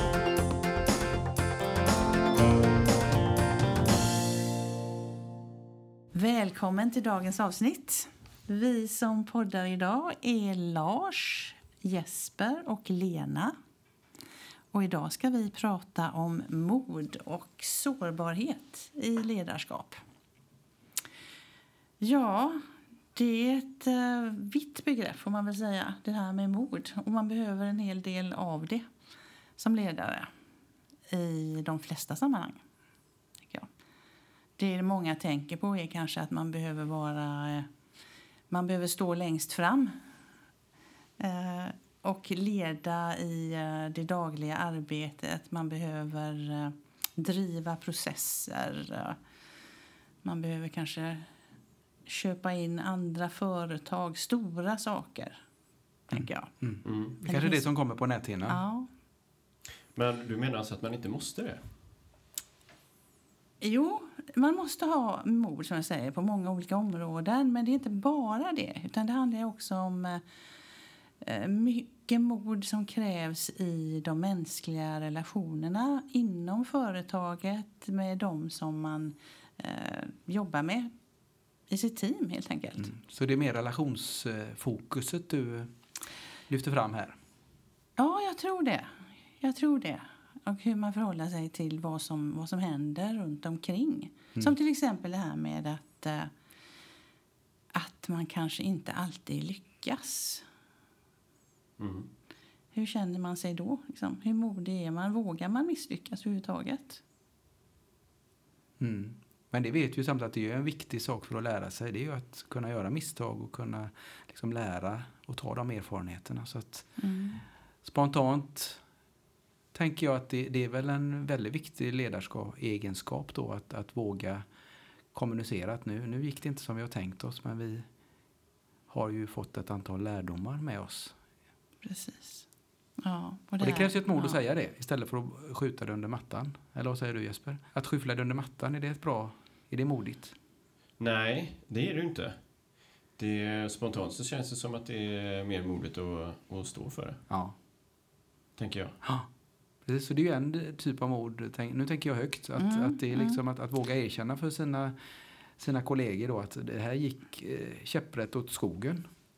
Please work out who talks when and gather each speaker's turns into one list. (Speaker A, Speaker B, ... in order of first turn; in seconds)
Speaker A: 6.1-13.5, 14.7-20.0, 22.0-22.6, 23.1-28.9, 29.6-30.3, 31.1-32.6, 33.4-33.7, 34.6-37.7, 38.5-40.0, 41.2-49.2, 50.2-51.3, 52.1-55.4, 56.1-56.5, 57.2-57.8, 58.5-58.9, 63.6-70.2, 71.2-80.9, 81.7-82.9, 88.0-96.3, 97.7-100.5, 102.7-107.0, 117.0-117.4, 131.8-132.5, 133.0-134.4, 152.6-153.4
Speaker B: 56.6-58.6, 82.8-85.7, 86.5-87.2, 108.8-117.0, 117.8-118.8, 119.7-124.5, 125.1-127.9, 128.9-131.2, 133.6-140.3, 147.3-147.6, 149.8-154.9, 155.6-159.1
Speaker C: 56.9-57.2, 60.0-61.7, 101.8-102.1, 141.0-142.5, 143.1-147.2, 148.6-149.0